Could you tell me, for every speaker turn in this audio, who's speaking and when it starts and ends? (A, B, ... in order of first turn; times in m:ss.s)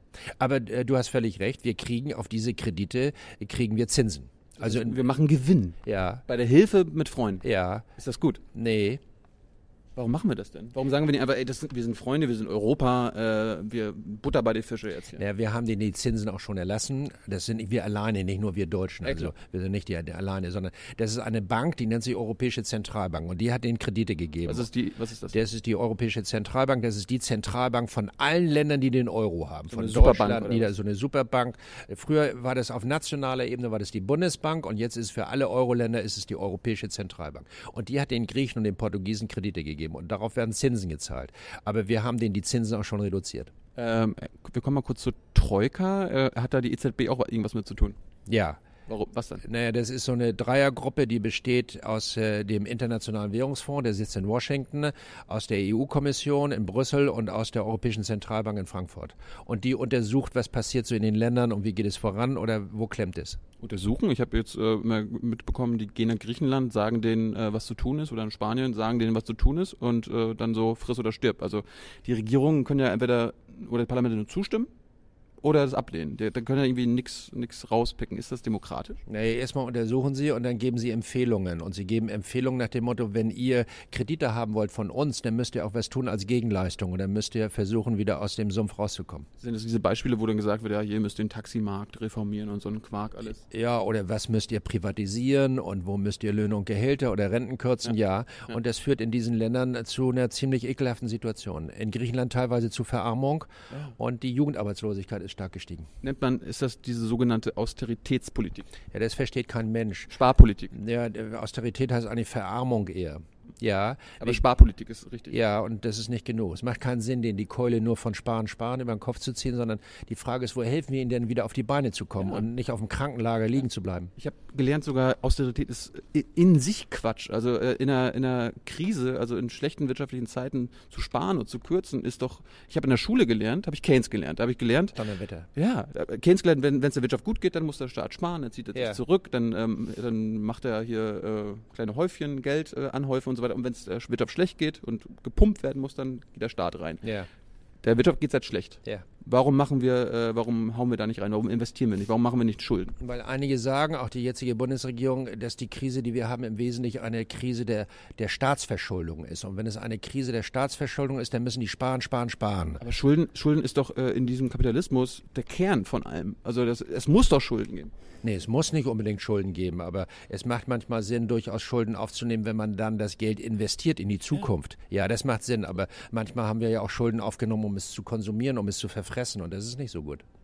0:00.4-0:05.0 A
0:04.6-0:07.4 B
0:05.8-0:06.2 A
0:07.4-0:07.8 A
0:08.0-0:08.4 B
0:08.5-0:09.0 A
0:10.0-0:15.2 B
0:15.2-0:24.7 A
0:19.0-0:19.3 B
0:24.5-0:25.4 B
0:25.3-0:43.5 A
0:29.7-0:30.7 B
0:43.8-0:48.0 B
0:48.3-0:48.6 A
0:48.9-0:49.4 B
0:49.4-1:03.4 A
1:03.6-1:14.7 B
1:15.4-1:19.0 B
1:19.1-1:29.3 A
1:29.4-1:33.4 B
1:33.5-1:45.9 A
1:46.0-1:48.7 B
1:48.9-1:50.1 A
1:50.1-1:50.7 B
1:50.7-1:54.4 A
1:54.2-1:55.4 B
1:55.3-2:04.1 A
2:04.2-2:15.0 B
2:15.0-2:15.5 A
2:15.5-2:27.1 B
2:18.8-2:19.0 A
2:27.0-2:27.3 A
2:27.8-2:33.0 B
2:33.0-2:42.8 A
2:42.8-2:47.9 B
2:48.2-3:00.2 A